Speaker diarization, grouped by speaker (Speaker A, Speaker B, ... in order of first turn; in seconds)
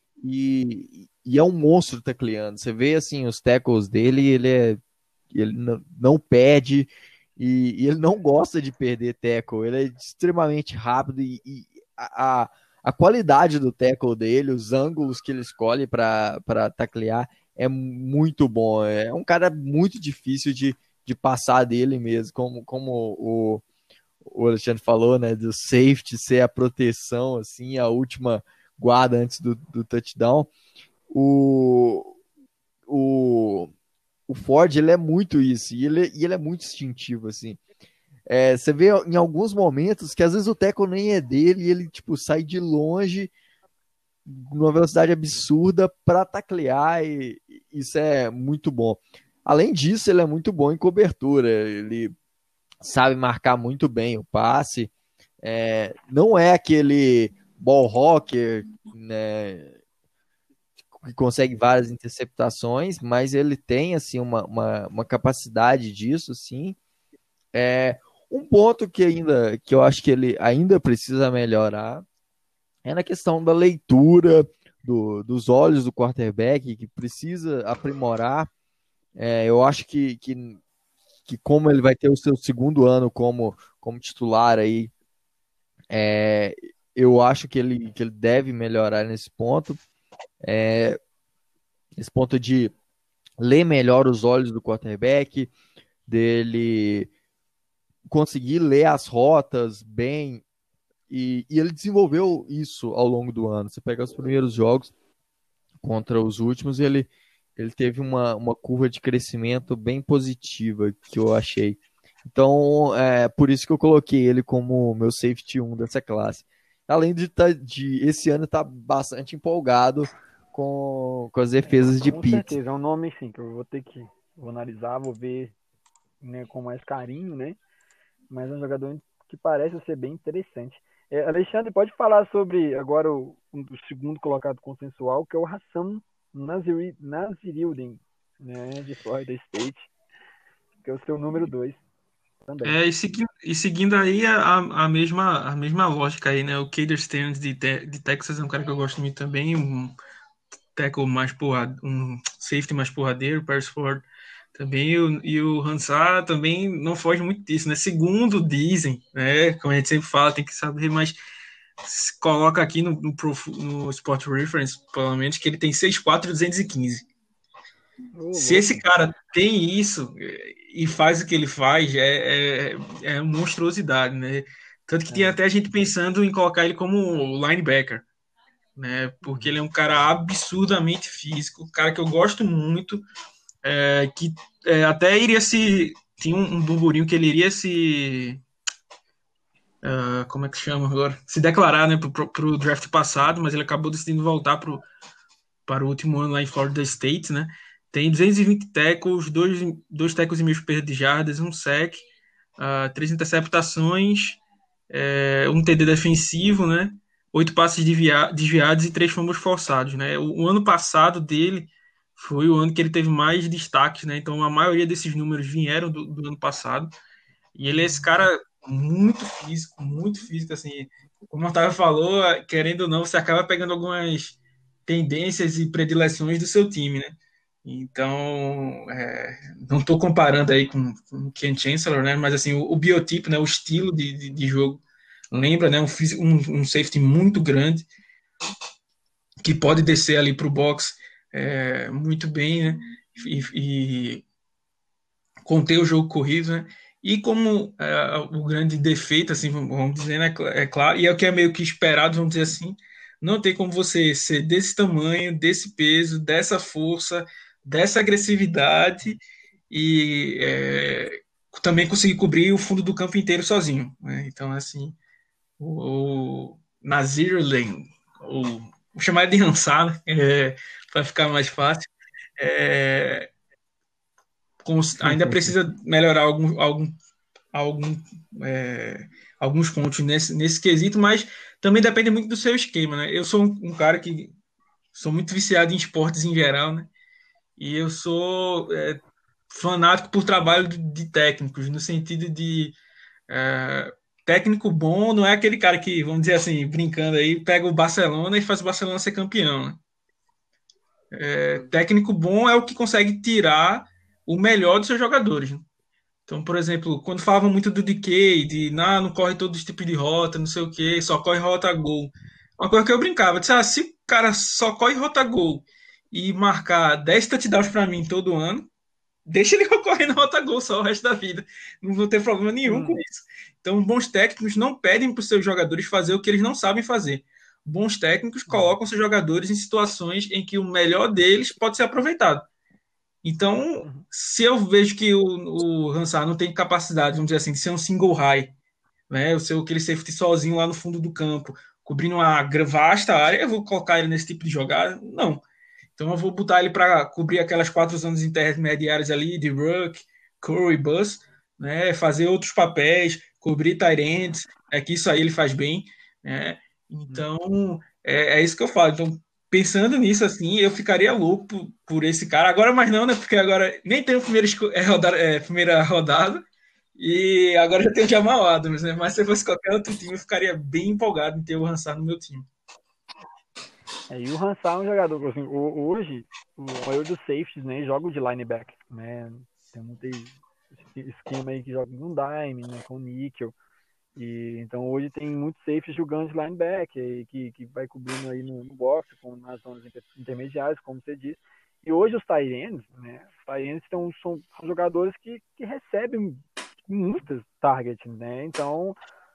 Speaker A: 0.2-4.8, 5.3-23.6, 24.2-30.5, 31.1-32.1, 32.9-33.7, 34.3-37.6, 38.3-43.3, 44.3-52.1, 52.8-54.9, 55.4-59.7, 61.0-66.8, 67.5-72.0, 72.8-78.5, 79.2-80.6, 81.3-84.9, 85.9-89.8, 90.4-91.0, 92.0-92.7, 93.4-95.5, 96.1-97.1, 98.1-100.4, 101.1-104.9, 105.8-122.5
Speaker B: 122.0-125.5, 126.2-127.6, 128.3-139.9, 140.8-141.8, 142.4-142.8, 168.2-168.8, 175.1-175.4, 179.2-179.6, 217.7-218.0, 275.0-275.5, 322.6-323.0, 328.5-328.8, 374.1-383.5, 384.1-399.0
Speaker C: 142.6-149.9, 150.7-154.0, 154.5-161.2, 161.8-167.1, 168.3-178.0, 178.8-183.0, 183.6-188.4, 189.8-194.8, 195.7-202.0, 202.6-216.9, 217.5-227.1, 227.6-237.8, 239.4-244.2, 245.4-265.0, 265.6-273.3, 274.6-276.9, 277.5-284.3, 284.9-286.9, 287.6-289.0, 289.5-292.8, 293.3-299.8, 301.1-305.6, 306.3-318.7, 319.3-332.5, 333.2-338.5, 339.1-345.4, 346.0-366.4, 366.9-372.5